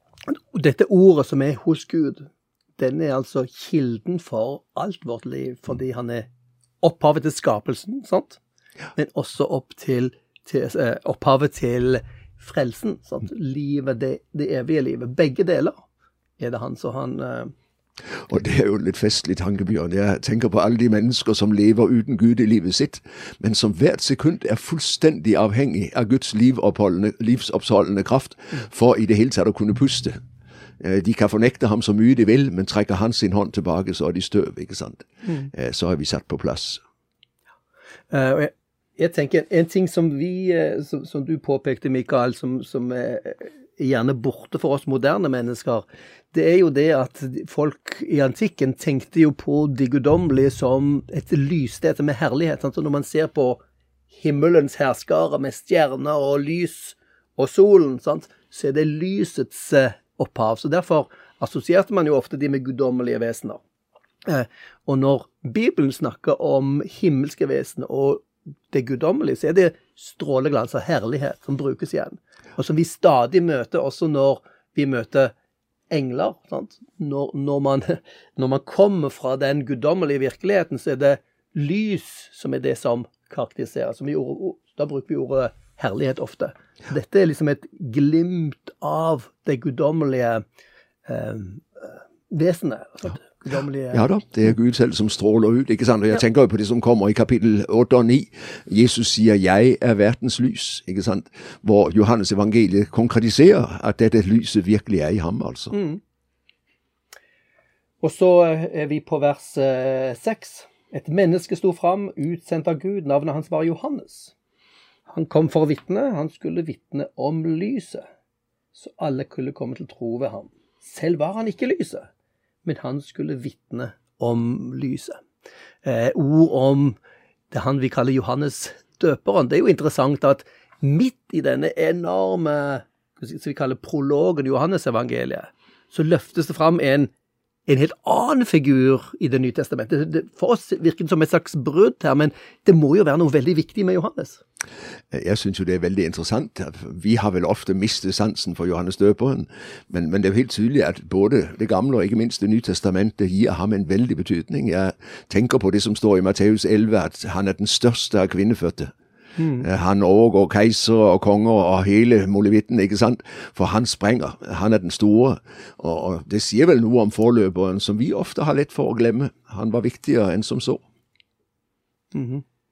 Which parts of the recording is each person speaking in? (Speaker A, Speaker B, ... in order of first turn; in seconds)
Speaker A: 0.3-6.3, 6.8-8.4, 8.9-15.8, 16.4-17.5, 35.2-35.5, 38.1-53.6, 54.1-63.6, 64.2-75.3, 75.9-90.4, 91.1-94.1, 105.7-106.0, 108.0-114.3, 115.1-118.1, 118.8-122.1, 122.6-125.2, 125.8-127.0, 127.5-137.1, 137.7-144.4, 159.4-159.7, 172.1-172.4
Speaker B: 18.1-30.2, 30.8-36.8, 93.9-105.7, 145.1-158.9, 159.6-170.8